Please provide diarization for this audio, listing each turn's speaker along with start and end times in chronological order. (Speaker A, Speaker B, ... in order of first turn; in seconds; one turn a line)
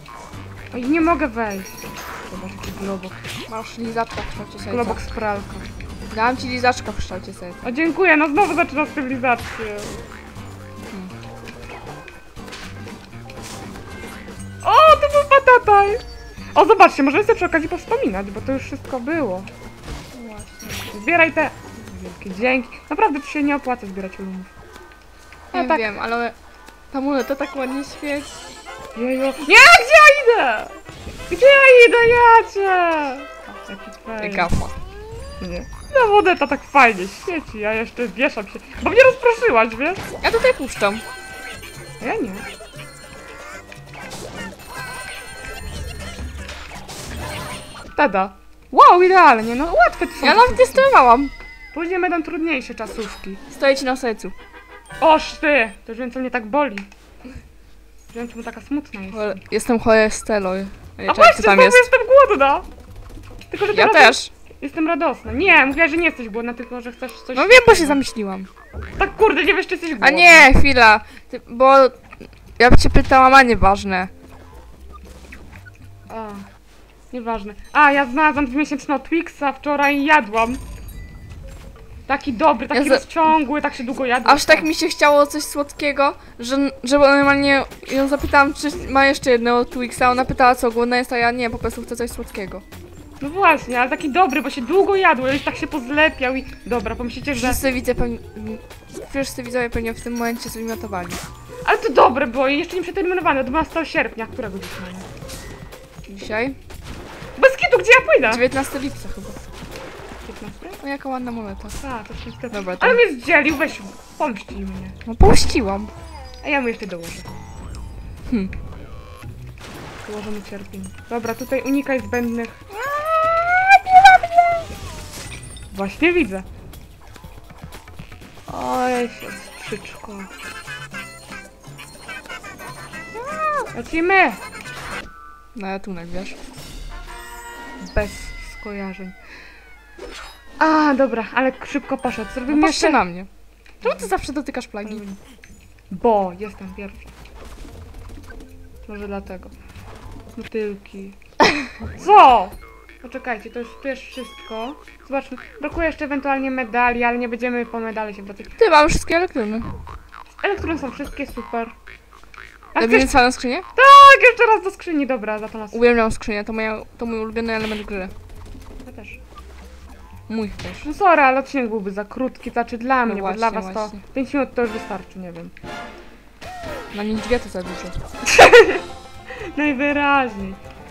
Speaker A: 0.7-3.2
Speaker B: 3.5-5.0
Speaker A: 4.7-5.7
Speaker B: 6.1-7.7
Speaker A: 7.6-10.1
Speaker A: 14.6-16.0
Speaker A: 16.5-19.5
Speaker B: 20.1-20.9
Speaker A: 20.9-24.5
Speaker B: 25.5-26.4
Speaker A: 25.5-25.9
Speaker B: 26.9-28.3
Speaker A: 28.9-34.5
Speaker B: 34.2-34.8
Speaker A: 35.4-40.1
Speaker B: 40.2-41.0
Speaker A: 42.0-42.5
Speaker A: 48.0-50.9
Speaker B: 50.2-51.3
Speaker A: 51.7-53.4
Speaker B: 53.5-54.4
Speaker A: 55.0-56.9
Speaker A: 58.1-59.4
Speaker B: 59.1-61.9
Speaker A: 61.1-62.7
Speaker A: 63.5-68.0
Speaker B: 63.7-64.3
Speaker B: 67.3-68.5
Speaker A: 69.0-70.5
Speaker B: 70.0-72.0
Speaker B: 72.6-74.1
Speaker A: 76.1-76.5
Speaker A: 77.1-80.6
Speaker A: 82.1-84.7
Speaker B: 82.7-83.3
Speaker B: 84.2-92.6
Speaker A: 93.2-97.6
Speaker B: 97.3-101.2
Speaker A: 101.7-105.1
Speaker B: 106.1-106.6
Speaker A: 107.4-108.5
Speaker B: 108.2-109.4
Speaker A: 110.2-110.8
Speaker B: 110.8-111.8
Speaker A: 111.8-115.0
Speaker B: 112.5-113.0
Speaker B: 115.1-115.9
Speaker A: 116.4-117.3
Speaker B: 118.3-118.5
Speaker A: 120.1-122.6
Speaker B: 122.9-124.6
Speaker A: 125.7-126.5
Speaker A: 128.5-130.3
Speaker B: 133.4-133.6
Speaker A: 133.7-134.4
Speaker B: 135.6-136.4
Speaker A: 137.8-139.2
Speaker A: 140.6-143.0
Speaker B: 142.5-143.3
Speaker A: 143.8-144.1
Speaker B: 143.8-145.0
Speaker A: 144.8-145.2
Speaker A: 145.9-147.1
Speaker A: 148.9-149.5
Speaker A: 150.4-151.2
Speaker A: 151.9-158.5
Speaker B: 158.6-159.8
Speaker A: 160.4-161.8
Speaker A: 162.8-163.2
Speaker B: 162.8-163.7
Speaker A: 163.7-165.8
Speaker B: 165.7-168.1
Speaker A: 168.8-169.2
Speaker B: 170.3-170.9
Speaker A: 170.8-175.5
Speaker B: 173.1-174.0
Speaker B: 176.9-178.1
Speaker A: 178.2-180.6